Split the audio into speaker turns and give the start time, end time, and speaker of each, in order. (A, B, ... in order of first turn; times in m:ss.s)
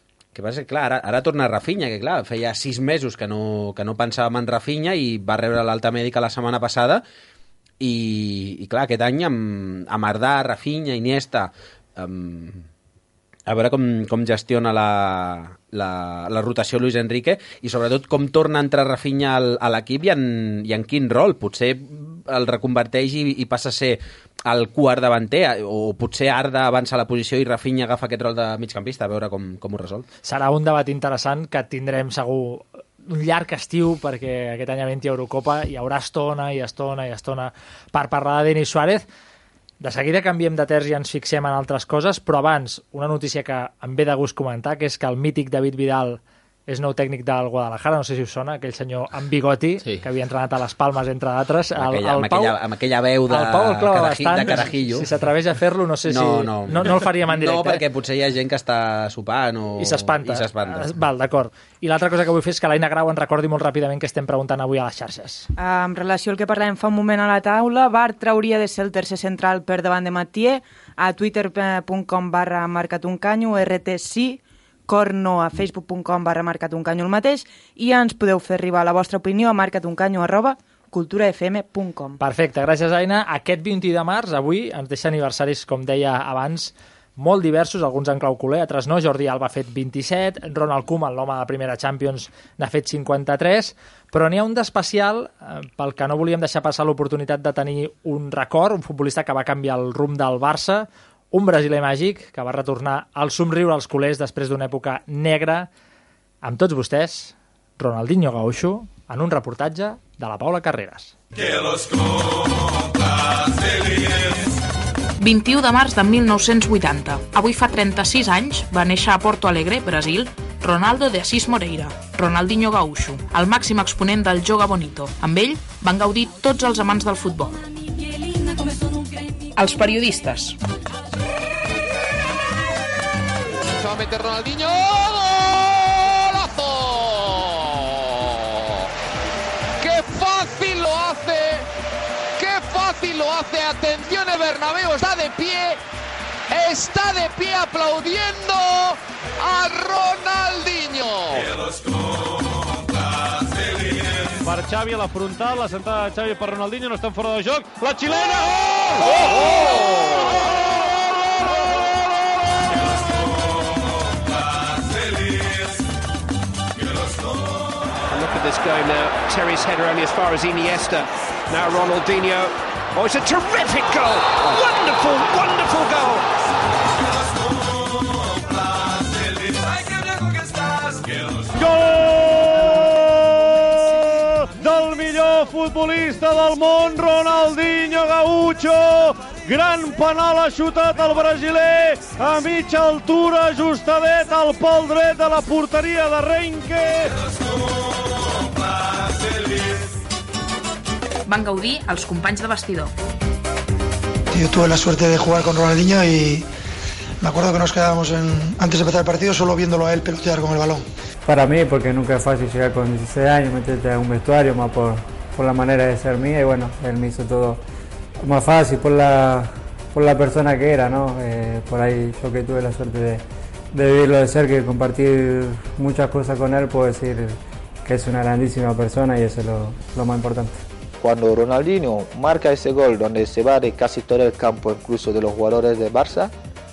0:00.3-0:07.0 A
0:07.8-0:12.7 A
0:13.5-0:30.1 A
0:30.2-0:39.1 B
0:39.8-0:52.6 B
0:51.8-0:55.1 A
0:53.3-0:57.8 B
0:56.1-1:01.0 A
0:59.8-1:05.5 B
1:05.6-1:22.2 C
1:22.2-1:45.7 B
1:46.4-1:51.1 B
1:55.2-2:07.6 D
2:09.6-2:10.6 D
2:13.8-2:18.9 E
2:19.8-2:21.7 E
2:22.4-2:25.8 E
2:26.5-2:31.5 E
2:34.4-2:39.6 F
2:39.1-2:40.4 E
2:48.1-2:56.2 G
3:01.5-3:17.2 F
3:21.3-3:22.9 D
3:24.3-3:26.5 H
3:27.2-3:30.8 H
3:31.3-3:37.6 I
3:38.2-3:50.6 I
3:51.0-3:56.3 J